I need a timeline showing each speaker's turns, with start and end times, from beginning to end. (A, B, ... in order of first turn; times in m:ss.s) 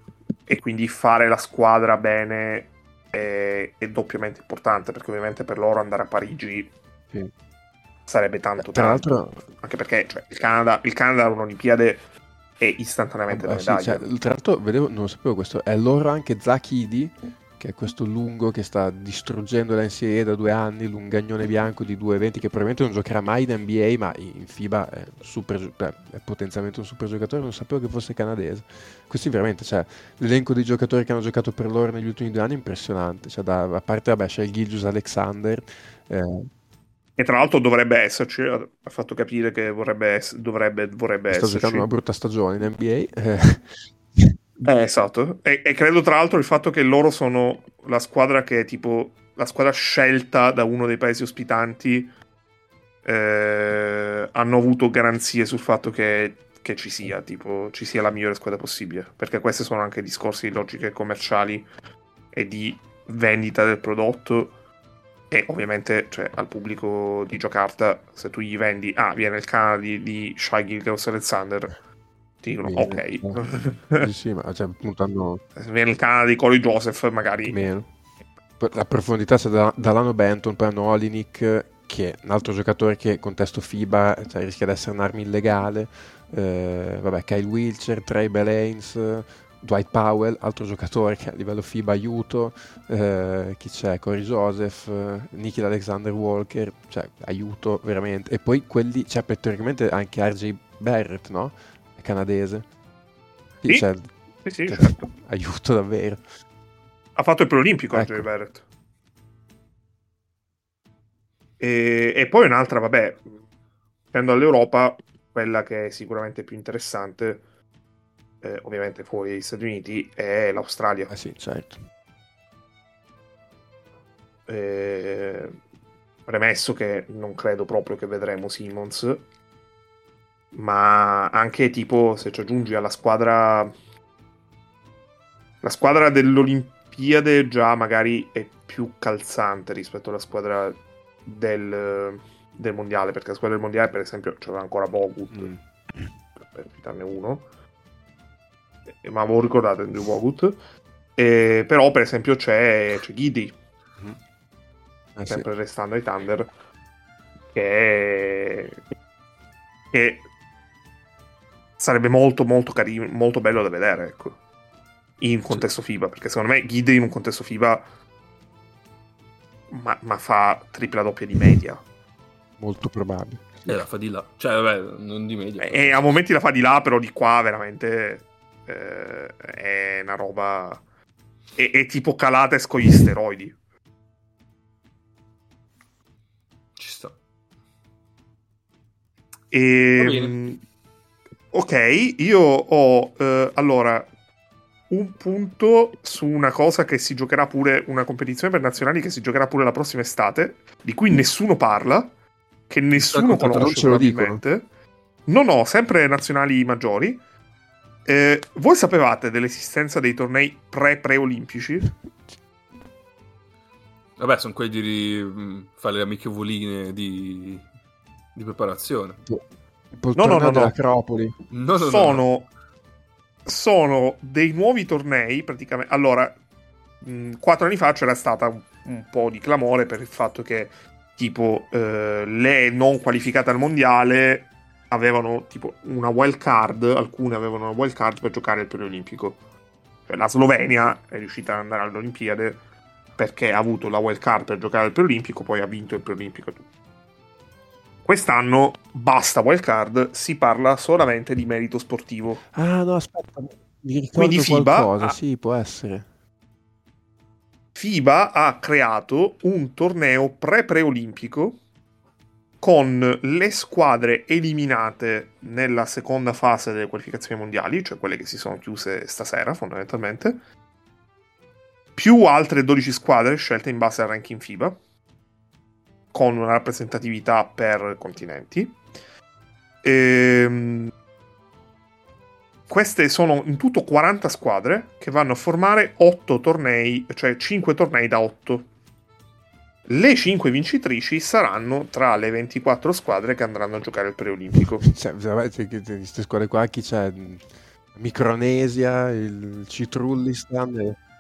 0:00.5-0:06.7 A
0:08.1-0:09.1 A
0:08.6-0:09.4 B
0:09.6-0:12.0 A
0:12.6-0:14.1 A
0:13.3-0:36.5 B
0:37.2-0:41.9 A
0:41.3-0:44.4 B
0:44.6-0:52.1 A
0:53.0-1:01.7 A
1:02.3-1:04.5 A
1:05.3-1:11.8 A
1:12.4-1:14.1 A
1:12.6-1:15.4 B
1:15.6-1:17.6 A
1:17.5-1:17.9 B
1:18.6-1:42.6 B
1:43.6-1:44.1 B
1:44.4-1:45.0 A
1:44.7-1:46.2 B
1:47.2-1:48.6 A
1:47.9-1:48.3 B
1:51.6-1:53.3 A
1:54.1-1:57.4 A
1:58.4-2:01.1 A
2:01.1-2:01.8 B
2:04.5-2:05.6 A
2:06.3-2:09.2 A
2:10.5-2:13.7 A
2:15.6-2:25.5 A
2:25.3-2:26.1 B
2:26.4-2:27.4 A
2:29.0-2:30.6 A
2:31.2-2:33.6 A
2:35.2-2:35.5 B
2:35.3-2:36.5 A
2:37.5-2:38.8 A
2:39.9-2:40.2 A
2:41.8-2:44.4 A
2:45.2-2:47.8 A
2:49.7-2:51.8 A
2:52.6-2:53.8 B
2:53.7-2:56.0 C
2:55.6-3:00.8 A
3:01.6-3:03.6 A
3:06.8-3:07.2 C
3:09.5-3:10.6 A
3:10.0-3:10.4 C
3:11.5-3:14.1 A
3:14.9-3:22.1 A
3:22.7-3:24.7 A
3:23.0-3:24.4 B
3:25.3-3:27.2 A
3:28.1-3:31.9 A
3:34.2-3:37.7 C
3:38.4-3:39.2 C
3:39.9-3:41.4 B
3:40.2-3:40.8 A
3:41.5-3:42.3 C
3:41.8-3:42.5 A
3:43.5-3:46.4 A
3:47.0-3:59.4 A
4:00.1-4:02.6 A
4:03.2-4:06.6 A
4:08.1-4:12.4 A
4:12.5-4:16.1 B
4:14.2-4:15.2 A
4:17.8-4:21.6 A
4:22.6-4:30.4 A
4:32.0-4:34.8 A
4:36.1-4:38.8 A
4:39.8-4:40.9 A
4:42.7-4:48.7 A
4:49.9-4:54.8 A
4:54.8-5:01.0 B